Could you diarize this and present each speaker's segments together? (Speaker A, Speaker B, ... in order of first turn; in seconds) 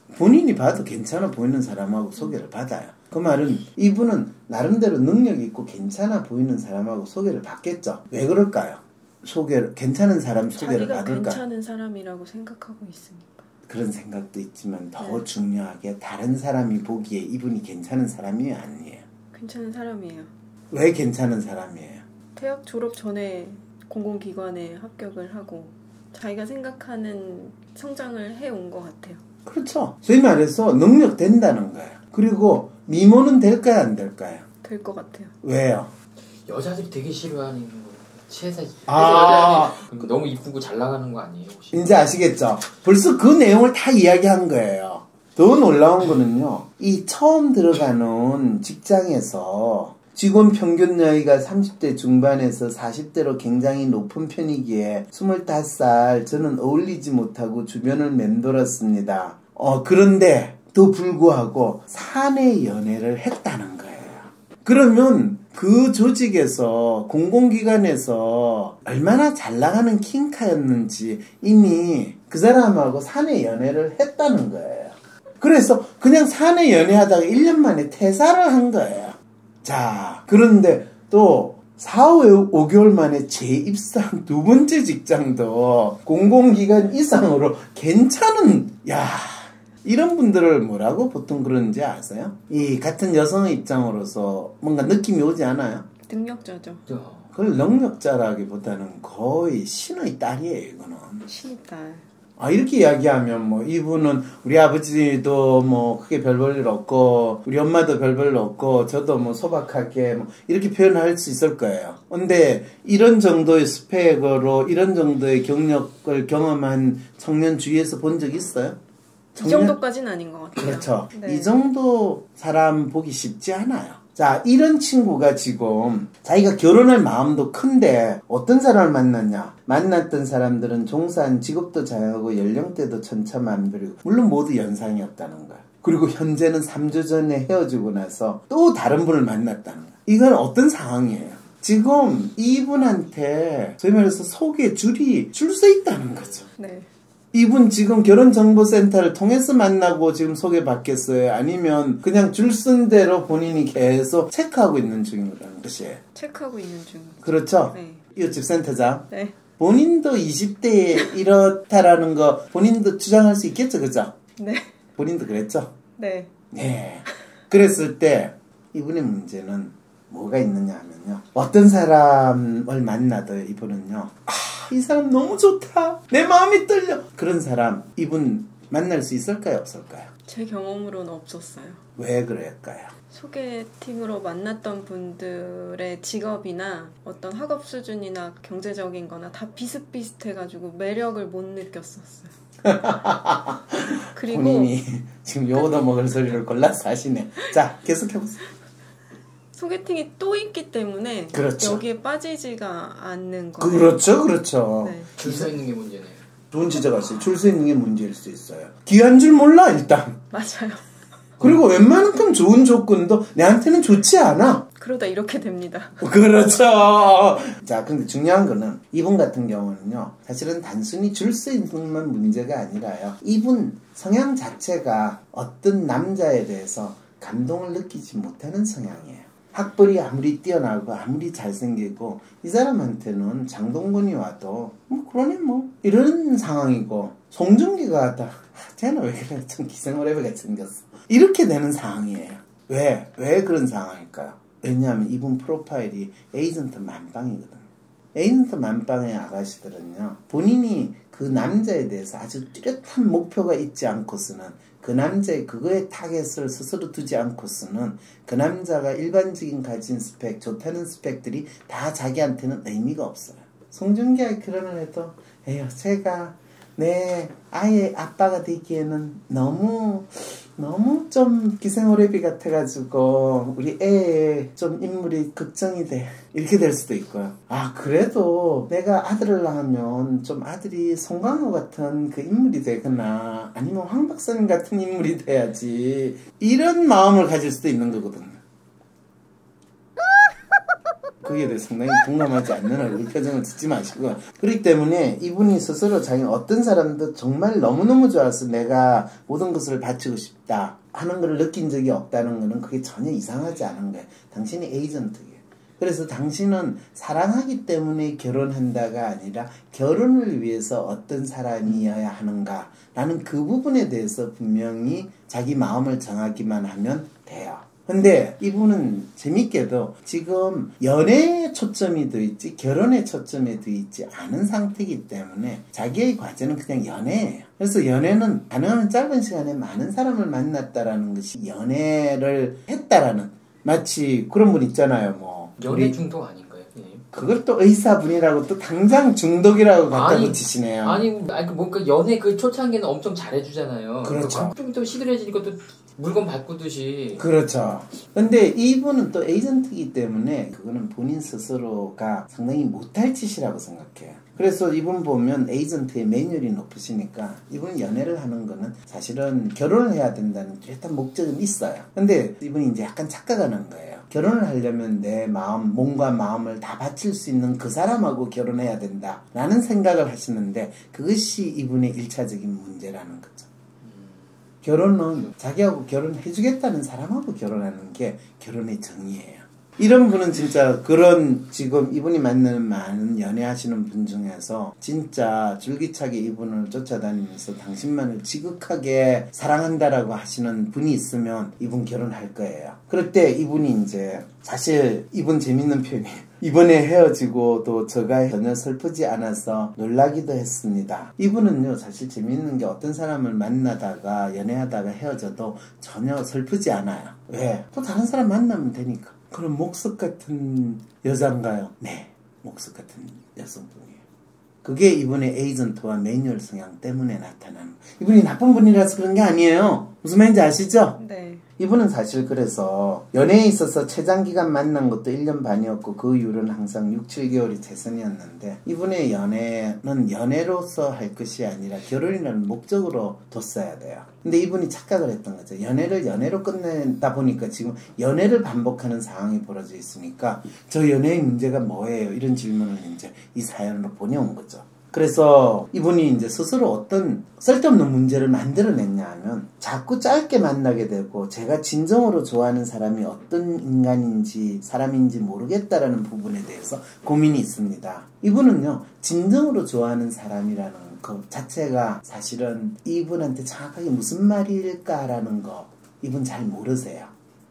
Speaker A: 0.1-11.4, 13.7-19.0, 20.7-22.0, 29.5-34.5, 35.4-35.9, 38.9-39.8, 41.7-95.9, 97.3-101.3, 102.4-118.8, 119.3-119.8, 120.5-146.5, 147.3-156.0, 157.2-164.2, 165.0-165.7, 166.5-180.1, 182.0-182.9, 192.6-198.4, 201.3-201.8, 203.6-205.5, 206.5-210.2, 211.4-214.7, 216.0-247.6, 248.2-288.4, 291.2-336.0, 337.1-341.0, 344.0-344.6, 347.2-373.5, 374.6-414.0, 414.6-421.0, 421.6-467.1
Speaker B: 10.6-13.5, 15.0-15.3, 19.3-20.3, 22.4-29.2, 34.6-35.3, 96.1-96.8, 101.3-102.0, 119.4-121.5, 146.6-146.9, 156.1-158.0, 159.1-159.4, 164.4-164.7, 166.0-166.3, 180.3-181.8, 183.1-192.3, 194.1-194.7, 199.6-204.0, 204.8-205.1, 210.3-210.8, 214.8-216.0, 421.0-421.4
Speaker C: 36.5-41.9, 96.9-97.3, 205.2-206.2, 335.6-337.1, 339.9-347.3, 373.8-374.3